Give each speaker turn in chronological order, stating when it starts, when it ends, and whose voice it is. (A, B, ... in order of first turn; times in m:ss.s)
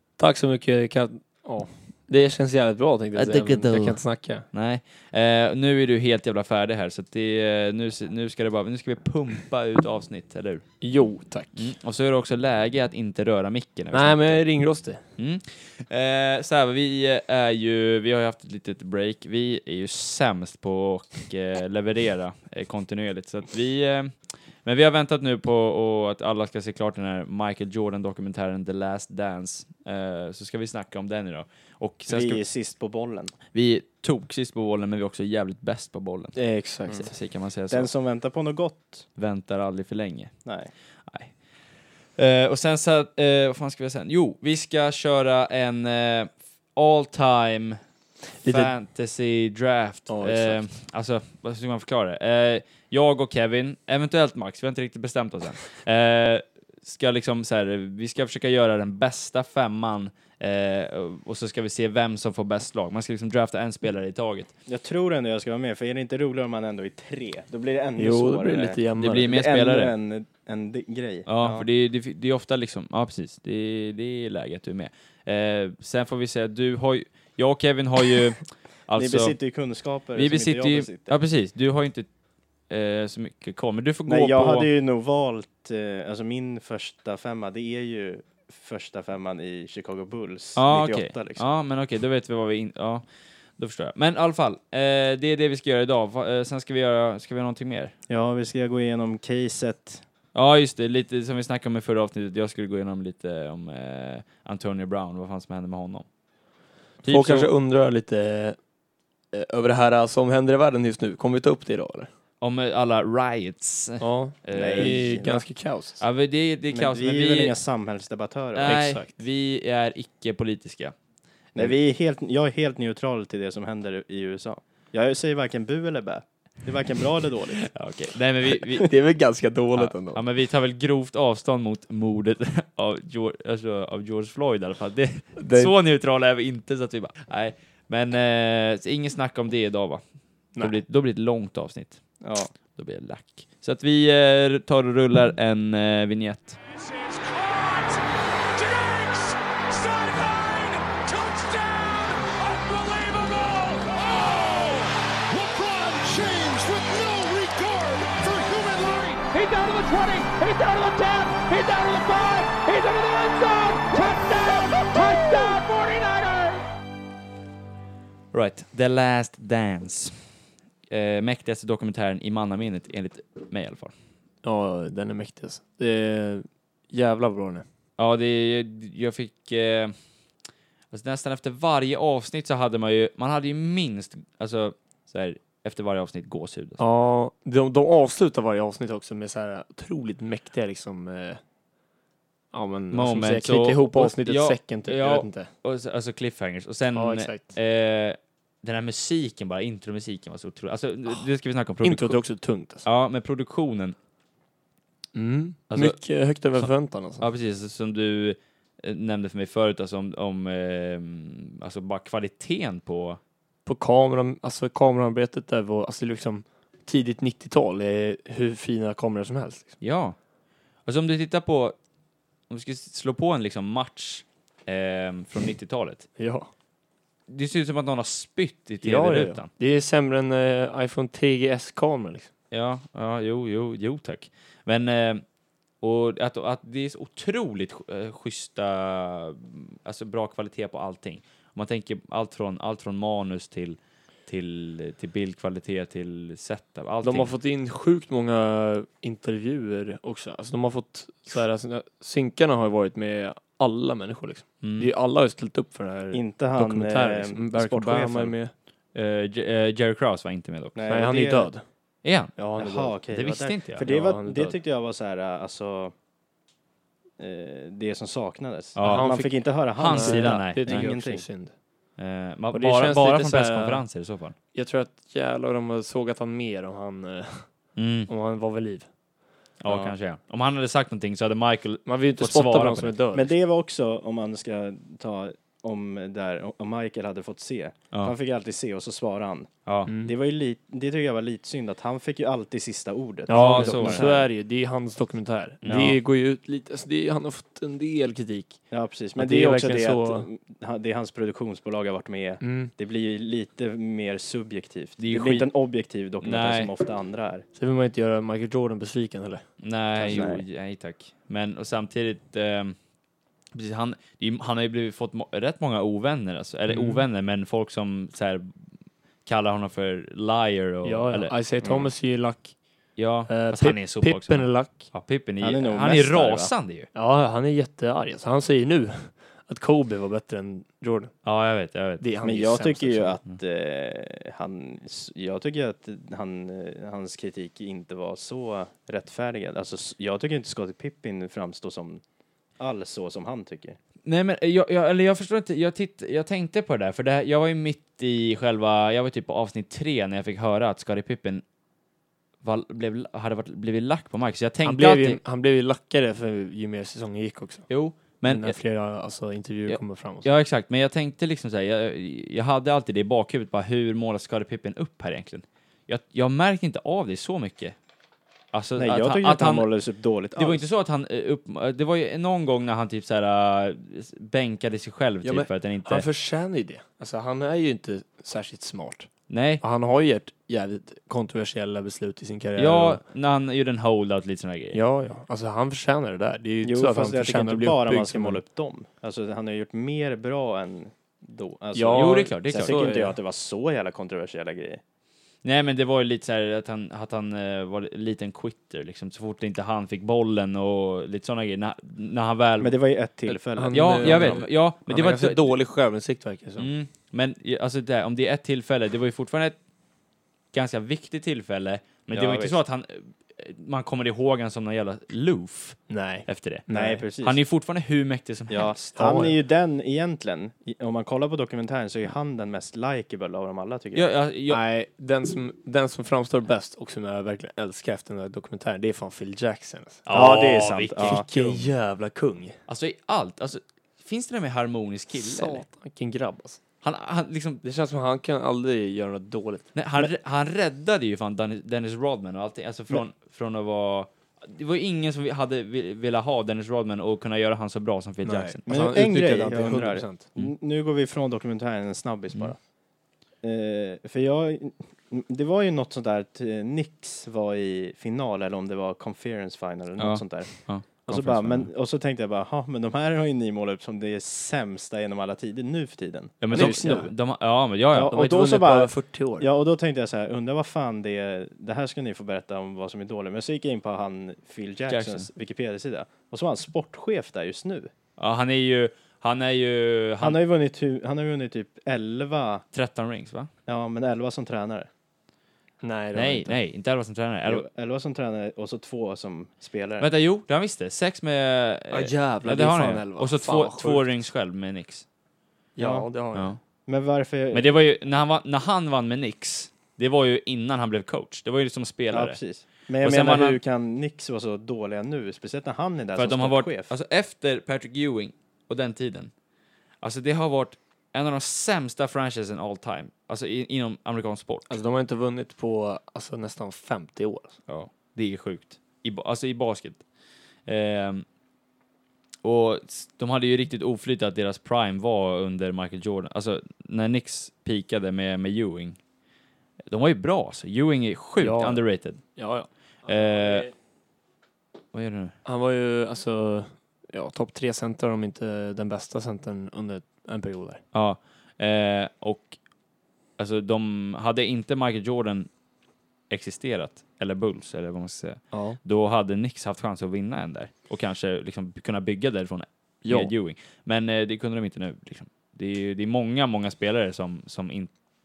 0:00.2-0:04.4 A
0:03.1-0:04.0 B
0:04.5-0:10.6 B
0:10.8-0:11.7 A
0:11.6-0:14.4 B
0:13.9-0:15.0 A
0:15.2-0:32.4 B
0:32.1-0:33.3 C
0:33.5-0:36.4 B
0:36.4-0:37.1 A
0:36.9-0:37.9 B
0:37.7-0:39.1 C
0:39.2-0:40.3 B
0:40.4-0:40.7 C
0:41.1-0:41.4 B
0:42.2-0:47.8 B
0:48.4-0:48.7 A
0:48.4-1:04.5 B
0:50.1-0:50.6 A
1:04.7-1:11.6 C
1:08.0-1:09.4 A
1:09.0-1:09.9 B
1:11.3-1:19.4 B
1:18.9-1:21.1 C
1:20.1-1:22.1 B
1:22.7-1:24.7 B
1:24.1-1:31.4 C
1:30.6-1:33.0 B
1:33.6-1:37.9 B
1:38.1-1:40.0 C
1:40.3-1:46.1 B
1:47.0-1:47.5 B
1:47.0-1:48.6 A
1:49.3-1:52.1 A
1:52.4-1:55.2 B
1:54.0-1:56.0 A
1:54.5-1:55.4 C
1:56.0-1:57.5 B
1:56.7-1:58.8 C
1:58.5-2:00.9 B
1:58.6-1:59.1 A
2:01.5-2:07.7 C
2:07.6-2:08.9 B
2:08.8-2:10.2 A
2:09.7-2:20.0 B
2:15.4-2:15.7 A
2:20.6-2:22.0 B
2:22.2-2:22.5 C
2:22.7-2:26.6 B
2:26.7-2:46.6 D
2:48.3-2:50.3 B
2:50.9-2:53.9 B
2:54.4-2:57.6 A
2:58.0-2:59.9 B
3:00.9-3:06.8 B
3:06.8-3:11.4 A
3:12.5-3:15.5 A
3:12.9-3:22.2 B
3:16.9-3:17.5 A
3:21.8-3:22.8 A
3:22.8-3:24.0 B
3:25.1-3:27.2 A
3:25.7-3:26.0 B
3:27.2-3:33.2 B
3:33.6-3:39.8 A
3:39.8-3:40.2 B
3:40.8-3:41.8 B
3:42.5-3:46.1 B
3:46.2-3:46.5 A
3:47.3-3:49.5 B
3:48.8-3:52.3 A
3:52.5-3:55.2 B
3:55.8-4:07.3 B
4:07.0-4:18.5 A
4:14.6-4:14.9 B
4:16.1-4:18.3 C
4:18.9-4:20.8 B
4:20.7-4:21.5 C
4:20.9-4:21.6 A
4:22.0-4:22.3 B
4:22.4-4:22.9 A
4:22.5-4:25.9 C
4:23.1-4:23.8 B
4:23.8-4:24.6 A
4:27.2-4:31.2 C
4:28.8-4:29.1 B
4:28.8-4:31.5 A
4:29.8-4:30.9 B
4:32.0-4:34.3 B
4:32.5-4:33.8 A
4:34.5-4:37.5 A
4:37.8-4:38.1 B
4:38.1-4:38.9 A
4:39.6-4:42.9 B
4:39.6-4:39.9 C
4:41.8-4:43.3 A
4:43.1-4:49.5 C
4:49.6-4:49.9 B
4:49.9-4:50.1 A
4:50.0-4:54.2 C
4:53.3-4:58.6 A
4:53.3-4:54.2 B
4:55.6-4:56.0 B
4:55.7-4:56.0 C
4:58.7-5:07.4 C
4:59.2-5:00.3 A
5:02.4-5:02.7 A
5:05.0-5:05.5 B
5:06.2-5:06.7 B
5:07.6-5:09.4 A
5:09.6-5:12.8 B
5:10.0-5:10.4 C
5:13.5-5:18.5 B
5:16.7-5:17.0 A
5:19.2-5:21.3 B
5:20.8-5:22.5 A
5:21.6-5:21.9 C
5:23.0-5:26.9 B
5:23.3-5:24.9 A
5:25.4-5:26.5 C
5:26.9-5:31.1 A
5:31.2-5:32.0 B
5:32.0-5:33.2 A
5:32.2-5:42.0 C
5:42.6-5:43.8 C
5:44.0-5:51.4 B
5:52.4-5:55.2 B
5:54.6-5:57.7 A
5:57.7-5:58.6 B
5:58.2-6:00.3 A
5:59.7-6:07.8 B
6:08.5-6:09.7 B
6:08.8-6:10.6 C
6:10.4-6:16.1 B
6:15.2-6:19.1 A
6:19.3-6:19.6 B
6:19.6-6:23.0 A
6:22.6-6:24.8 B
6:24.7-6:28.4 A
6:26.6-6:34.8 C
6:31.7-6:33.2 A
6:31.9-6:32.8 B
6:35.4-6:42.7 B
6:42.6-6:44.4 C
6:43.3-6:46.7 A
6:43.7-6:45.5 B
6:46.6-6:49.6 B
6:50.5-6:56.6 B
6:52.1-6:52.6 C
6:55.9-6:57.0 A
6:56.7-6:57.4 C
6:57.2-6:59.2 B
6:58.5-7:04.1 C
6:58.9-6:59.3 A
7:03.9-7:04.6 B
7:04.5-7:10.1 A
7:10.0-7:11.3 B
7:10.1-7:11.6 C
7:11.0-7:12.6 A
7:12.7-7:15.6 B
7:15.1-7:16.6 A
7:16.8-7:17.6 B
7:17.6-7:19.7 A
7:19.7-7:28.6 B
7:28.2-7:30.3 A
7:28.7-7:32.6 C
7:33.4-7:47.1 C
7:40.0-7:41.7 B
7:46.4-7:48.2 B
7:46.5-7:47.1 A
7:47.9-7:57.9 C
7:48.1-7:49.5 A
7:54.9-7:55.3 B
7:58.2-8:00.4 B
8:00.2-8:02.6 C
8:02.7-8:03.5 B
8:03.7-8:04.9 C
8:05.8-8:06.5 A
8:06.1-8:07.6 B
8:07.4-8:10.1 C
8:10.0-8:15.0 B
8:11.9-8:14.1 A
8:15.8-8:16.5 A
8:15.8-8:16.1 C
8:16.8-8:17.7 C
8:17.5-8:22.4 B
8:22.1-8:26.9 C
8:23.0-8:23.6 B
8:26.2-8:29.3 B
8:30.0-8:34.7 B
8:34.7-8:37.6 A
8:37.7-8:40.0 B
8:40.6-8:41.2 B
8:42.4-8:49.0 B
8:49.9-8:52.2 B
8:51.4-8:53.7 A
8:53.0-8:53.7 B
8:54.9-8:55.3 B
8:55.4-9:00.8 A
9:00.9-9:02.6 B
9:03.4-9:05.5 B
9:06.3-9:17.9 B
9:08.5-9:08.8 A
9:13.0-9:13.3 A